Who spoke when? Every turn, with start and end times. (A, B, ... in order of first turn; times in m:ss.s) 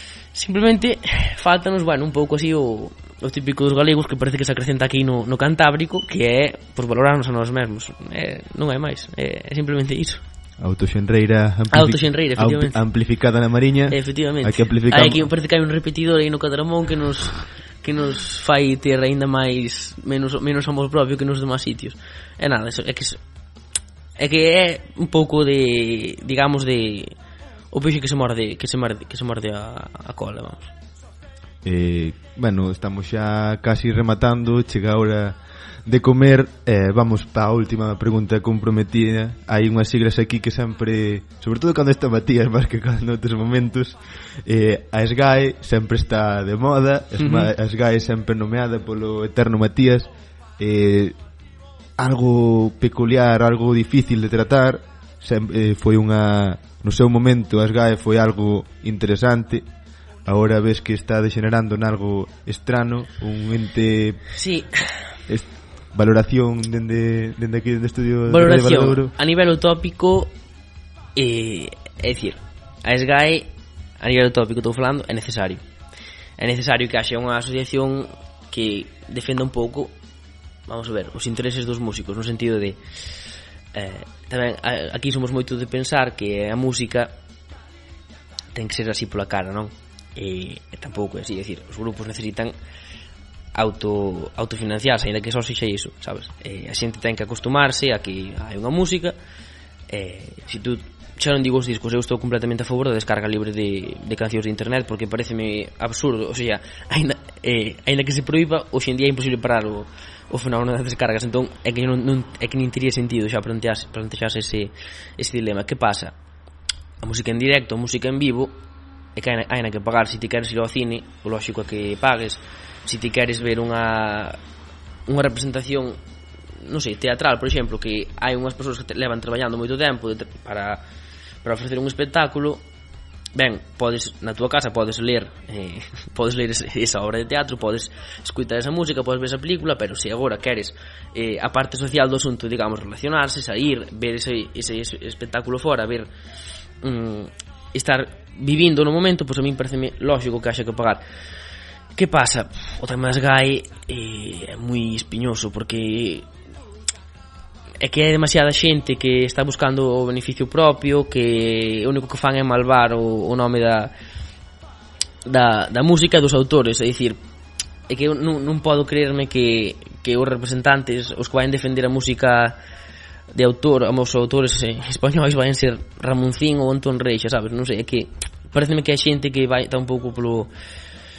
0:00.3-0:10.2 A
0:10.6-0:15.3 B
0:11.7-0:12.8 A
0:13.9-0:23.2 A
0:24.2-0:27.1 A
0:27.7-0:30.7 A
0:31.6-0:51.2 B
0:47.2-0:47.5 A
0:52.0-0:59.6 B
1:00.2-1:04.2 B
1:04.4-1:04.9 A
1:05.3-1:09.1 B
1:08.3-1:10.3 A
1:11.2-1:13.5 A
1:14.0-1:15.6 A
1:16.4-1:19.9 A
1:20.7-1:22.8 A
1:23.7-1:27.1 A
1:28.5-1:32.5 A
1:33.6-1:39.2 A
1:39.9-1:56.1 A
1:57.0-1:58.6 A
1:59.2-2:04.4 A
2:05.1-2:06.0 A
2:06.6-2:10.8 A
2:11.4-2:12.6 A
2:13.4-2:26.1 A
2:26.8-2:31.0 A
2:32.0-2:36.3 A
2:37.8-2:43.9 A
2:45.2-2:47.2 A
2:47.9-2:52.6 A
2:53.3-3:00.5 A